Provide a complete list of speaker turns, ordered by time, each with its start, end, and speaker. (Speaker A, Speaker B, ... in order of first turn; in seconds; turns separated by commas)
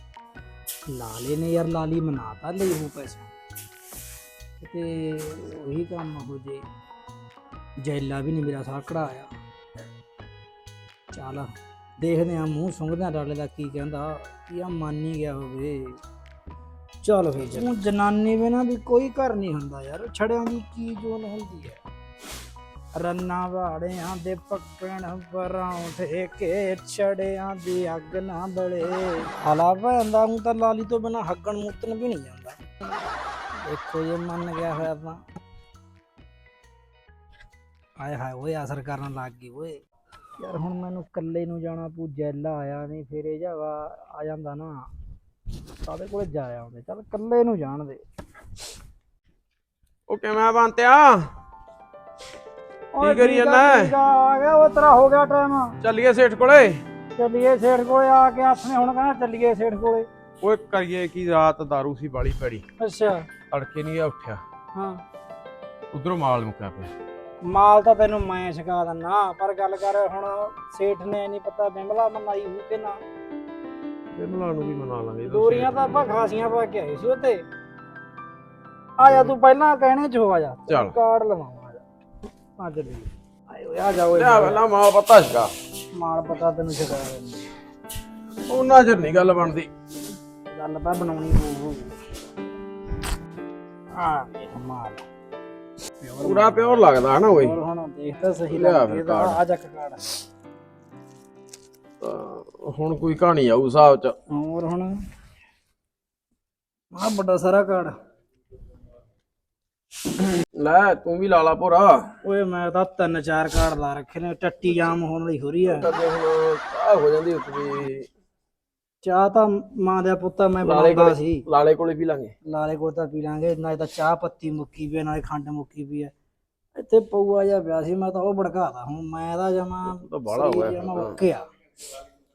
Speaker A: 0.9-3.3, Speaker A: 4.6-6.7, Speaker A: 7.8-9.3, Speaker A: 11.1-16.0, Speaker A: 17.0-21.8, Speaker A: 22.9-32.6, Speaker A: 33.6-35.2, Speaker A: 38.0-39.8, Speaker A: 40.4-44.9, Speaker A: 45.9-48.0, Speaker B: 50.1-51.3, Speaker A: 52.9-55.8, Speaker B: 53.0-53.9, Speaker B: 55.8-56.8, Speaker A: 57.2-60.1, Speaker B: 60.4-62.6, Speaker A: 62.8-63.3, Speaker B: 63.5-64.4, Speaker A: 64.8-65.0, Speaker B: 65.9-66.9, Speaker A: 67.4-73.0, Speaker B: 74.2-75.8, Speaker A: 75.2-77.4, Speaker A: 79.0-81.8, Speaker B: 79.0-79.3, Speaker B: 80.7-80.9, Speaker A: 82.6-84.6, Speaker B: 84.2-85.5, Speaker A: 86.0-87.5, Speaker B: 88.5-89.7, Speaker A: 90.5-92.0, Speaker A: 94.0-95.0, Speaker A: 96.0-100.0, Speaker B: 96.2-97.6, Speaker B: 98.5-99.4, Speaker B: 102.0-104.2, Speaker A: 104.3-105.0, Speaker A: 106.9-108.0, Speaker B: 110.5-112.1, Speaker A: 112.2-115.9, Speaker B: 115.7-118.1, Speaker A: 119.0-121.4, Speaker B: 120.6-122.3, Speaker A: 122.5-126.1, Speaker A: 126.8-131.4, Speaker B: 129.9-131.2